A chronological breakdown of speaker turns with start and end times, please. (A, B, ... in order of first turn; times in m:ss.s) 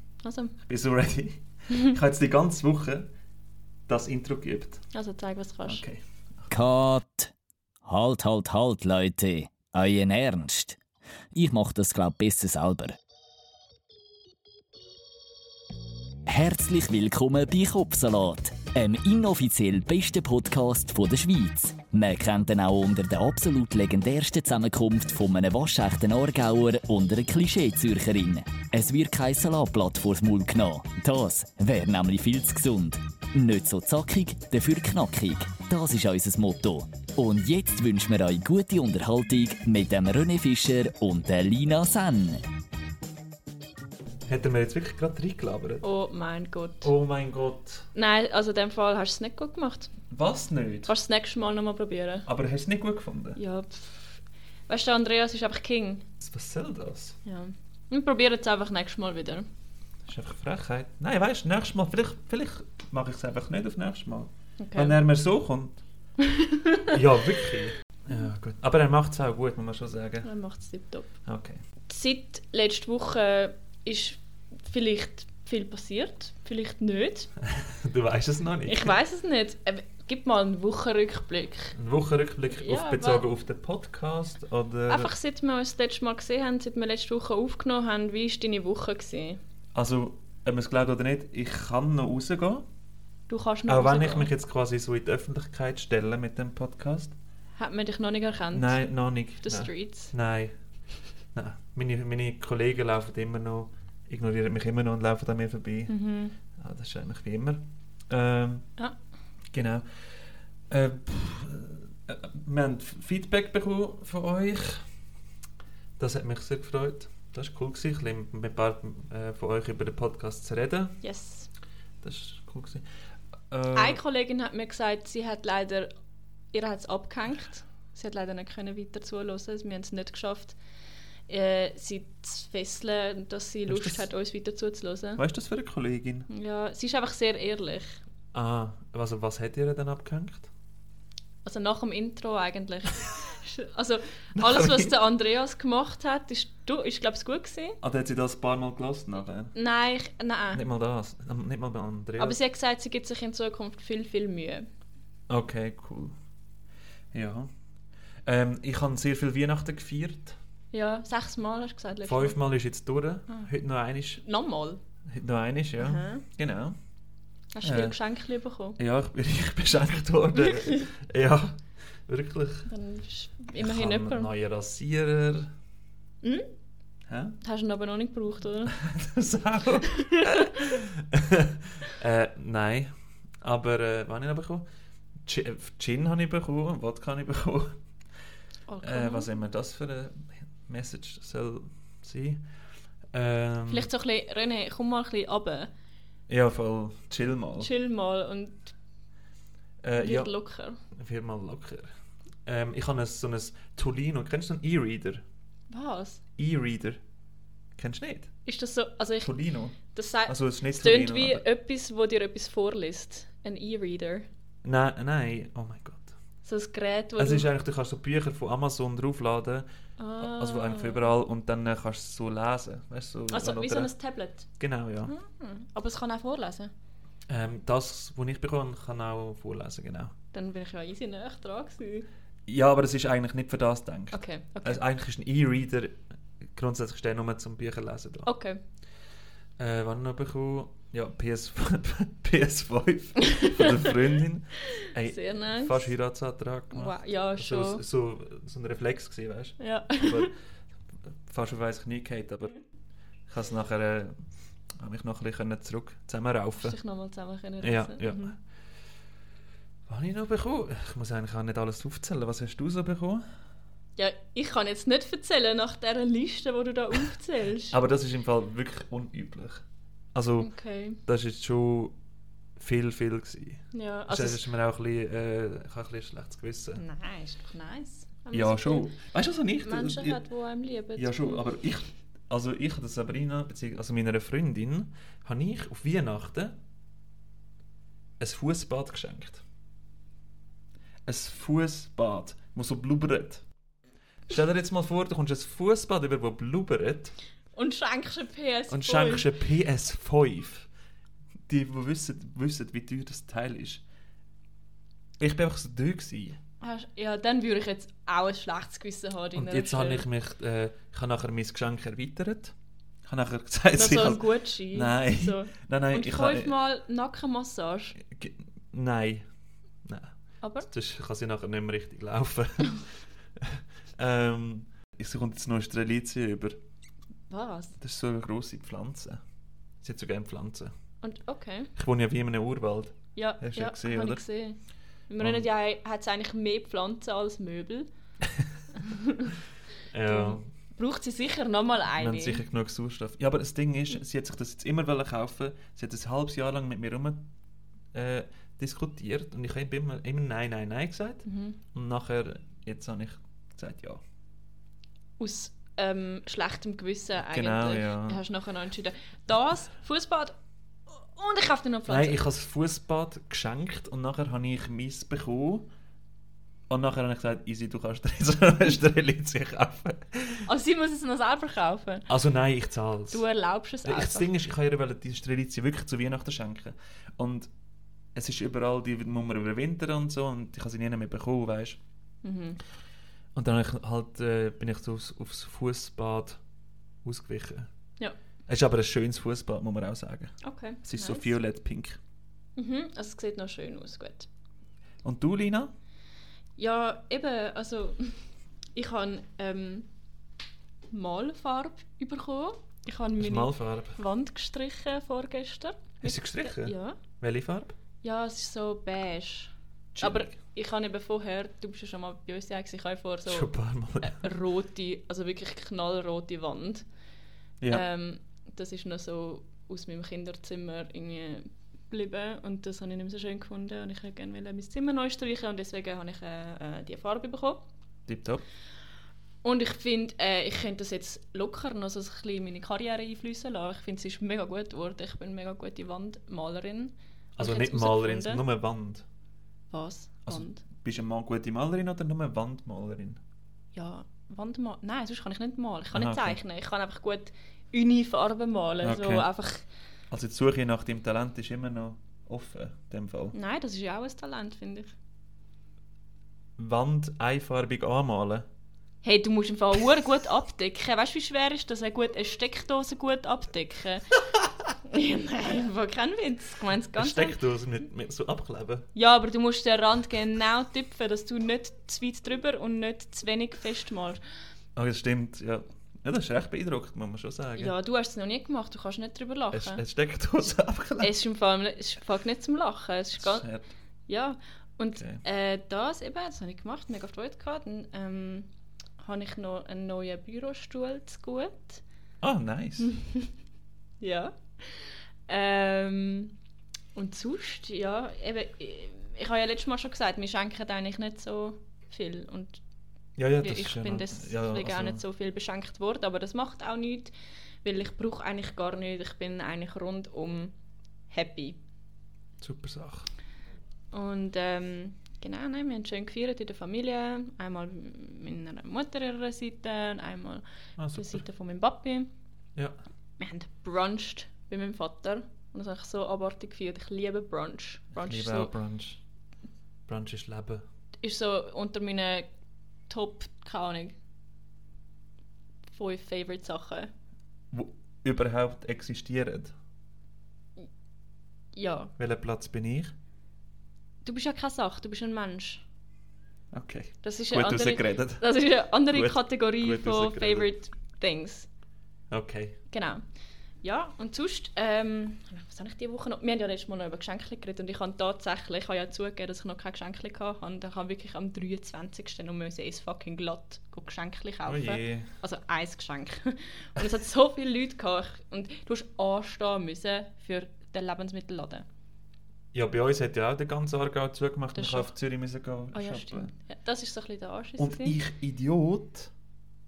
0:00.2-0:00.5 A
0:00.6-0:03.1 B
0:03.9-0:04.8 B
0:04.9-0:05.8 A
0:05.6-0:06.5 B
0:06.5-0:07.3 C
0:07.8-0:10.8 C
0:11.3-0:12.9 C
0:16.2-0:42.4 C
0:44.3-0:45.8 B
0:45.8-0:46.9 A
0:46.8-0:47.9 B
0:47.9-0:49.9 A
0:50.1-0:50.9 B
0:50.8-0:52.3 A
0:52.3-0:53.4 B
0:53.4-0:56.0 A
0:56.2-0:57.2 B
0:57.2-0:59.4 A
1:00.0-1:05.8 B
1:04.6-1:05.0 A
1:06.2-1:06.9 A
1:06.9-1:10.3 B
1:10.2-1:11.1 A
1:11.2-1:11.6 B
1:11.9-1:17.3 A
1:17.4-1:18.9 B
1:18.6-1:21.7 A
1:21.7-1:25.1 B
1:22.5-1:23.2 A
1:24.9-1:29.4 A
1:29.7-1:32.6 B
1:33.3-1:34.3 A
1:33.7-1:37.1 B
1:37.6-1:38.8 A
1:38.5-1:40.5 B
1:39.4-1:40.1 A
1:41.3-1:45.9 B
1:45.9-1:46.3 A
1:46.6-1:48.7 B
1:49.5-1:54.8 B
1:56.0-2:01.0 B
2:01.0-2:01.5 A
2:02.0-2:02.8 B
2:03.5-2:04.0 B
2:03.7-2:05.9 A
2:06.5-2:10.6 A
2:11.3-2:15.2 A
2:13.7-2:14.1 B
2:15.2-2:16.3 B
2:16.3-2:18.0 A
2:18.3-2:20.5 B
2:21.4-2:27.8 A
2:24.3-2:24.9 B
2:27.8-2:29.5 B
2:29.5-2:30.6 A
2:30.5-2:32.4 B
2:32.2-2:34.6 A
2:35.3-2:36.2 B
2:37.1-2:37.5 B
2:38.2-2:40.4 B
2:40.7-2:42.4 A
2:42.0-2:44.2 B
2:44.2-2:44.8 A
2:45.1-2:46.8 B
2:45.8-2:46.2 A
2:47.5-2:48.8 A
2:47.6-2:48.0 B
2:48.8-2:52.7 B
2:50.4-2:50.8 A
2:52.7-2:54.3 A
2:53.5-2:55.5 B
2:56.2-2:56.5 A
2:57.1-2:57.4 B
2:57.4-2:58.8 A
2:58.7-3:02.9 B
3:00.0-3:00.7 A
3:03.4-3:04.6 B
3:05.2-3:07.8 B
3:08.7-3:09.3 A
3:08.8-3:12.4 B
3:13.1-3:13.9 B
3:13.7-3:15.7 A
3:16.3-3:17.7 B
3:17.6-3:18.7 A
3:19.8-3:20.3 B
3:20.0-3:20.8 A
3:20.9-3:21.9 B
3:22.4-3:25.2 B
3:25.7-3:26.2 A
3:26.4-3:27.0 B
3:27.8-3:28.3 B
3:28.4-3:29.3 A
3:29.2-3:31.4 B
3:29.8-3:34.3 A
3:34.6-3:36.1 B
3:36.4-3:37.5 A
3:37.2-3:39.6 B
3:40.0-3:41.1 A
3:40.2-3:43.9 B
3:43.3-3:44.5 A
3:44.6-3:45.1 B
3:45.0-3:46.7 A
3:47.3-3:50.1 B
3:50.3-3:52.1 A
3:52.5-3:56.0 B
3:54.1-3:54.8 A
3:56.5-3:58.3 B
3:58.2-3:58.6 A
3:59.6-4:10.3 B
4:03.2-4:03.9 A
4:04.7-4:05.9 A
4:06.7-4:07.8 A
4:09.6-4:10.3 A
4:11.2-4:12.6 B
4:13.3-4:14.2 B
4:14.8-4:16.8 B
4:16.6-4:18.3 A
4:17.6-4:18.3 B
4:19.9-4:23.2 B
4:24.0-4:27.8 A
4:27.7-4:29.6 B
4:30.1-4:30.5 B
4:30.4-4:31.0 A
4:31.0-4:31.9 B
4:32.6-4:36.8 B
4:33.7-4:34.4 A
4:36.8-4:38.9 A
4:38.3-4:40.2 B
4:39.6-4:41.5 A
4:41.0-4:46.6 B
4:48.2-4:49.4 B
4:51.0-4:53.4 B
4:54.3-4:57.1 B
4:57.6-4:59.3 A
4:58.7-5:00.7 B
5:01.5-5:03.8 B
5:05.2-5:06.4 B
5:06.6-5:10.0 A
5:09.3-5:12.5 B
5:13.0-5:16.5 B
5:13.7-5:18.0 A
5:18.0-5:19.2 B
5:19.8-5:20.1 B
5:20.4-5:20.7 A
5:20.7-5:26.6 B
5:27.3-5:27.8 A
5:27.8-5:29.2 B
5:29.8-5:30.7 B
5:31.0-5:31.7 A
5:31.8-5:34.2 B
5:33.2-5:34.6 A
5:35.1-5:37.9 A
5:35.2-5:35.4 B
5:38.7-5:39.4 A
5:39.9-5:40.4 B
5:40.0-5:42.4 A
5:42.0-5:47.2 B
5:47.9-5:54.0 B
5:51.2-5:51.6 A
5:55.2-6:00.4 A
5:57.2-5:58.2 B
6:00.9-6:02.2 A
6:01.9-6:05.7 B
6:06.7-6:10.5 B
6:10.4-6:12.0 A
6:12.1-6:13.2 B
6:13.1-6:14.3 A
6:13.8-6:17.5 B
6:18.1-6:21.8 B
6:22.2-6:22.6 A
6:23.3-6:26.4 B
6:27.0-6:27.7 B
6:28.5-6:32.0 B
6:30.4-6:31.3 A
6:32.6-6:34.3 A
6:35.0-6:35.7 B
6:36.6-6:38.2 A
6:38.7-6:39.8 A
6:40.9-6:47.0 A
6:43.2-6:44.0 B
6:46.0-6:47.7 B
6:48.0-6:53.5 A
6:49.9-6:50.3 B
6:53.3-6:54.3 B
6:54.0-6:56.8 A
6:57.6-6:57.8 B
6:57.7-7:07.6 A
7:08.1-7:08.4 B
7:09.4-7:18.4 A
7:17.4-7:19.0 B
7:19.7-7:20.6 A
7:20.3-7:23.2 B
7:23.7-7:29.6 A
7:25.9-7:26.4 B
7:28.8-7:29.3 B
7:30.1-7:33.3 B
7:33.3-7:34.9 A
7:36.6-7:38.5 B
7:39.0-7:44.1 A
7:44.9-7:47.4 A
7:47.0-7:48.9 B
7:48.9-7:54.2 A
7:54.8-7:57.7 B
7:57.6-7:59.8 A
7:59.5-8:01.1 B
8:01.0-8:03.4 A
8:03.2-8:03.7 B
8:04.1-8:08.5 A
8:05.0-8:05.2 B
8:09.0-8:11.8 A
8:12.2-8:12.9 B
8:12.8-8:13.3 A
8:14.0-8:16.3 A
8:16.9-8:22.6 A
8:23.2-8:25.0 B
8:23.4-8:27.1 A
8:27.6-8:30.5 A
8:31.1-8:31.6 A
8:32.4-8:33.1 B
8:33.9-8:42.1 A
8:40.8-8:41.2 B
8:43.2-8:48.5 A
8:47.9-8:49.0 B
8:49.9-8:50.6 B
8:51.0-8:52.3 A
8:52.9-8:54.0 A
8:55.7-8:56.9 A
8:57.5-8:59.5 B
9:01.6-9:01.9 A
9:02.0-9:02.9 B
9:04.0-9:05.6 A
9:06.5-9:08.3 B
9:07.0-9:11.5 A
9:08.9-9:10.5 B
9:12.1-9:12.6 B
9:12.7-9:13.0 A
9:13.6-9:31.6 A
9:24.4-9:25.1 B
9:32.5-9:36.3 B
9:34.5-9:34.9 A
9:35.7-9:38.0 A
9:37.6-9:39.1 B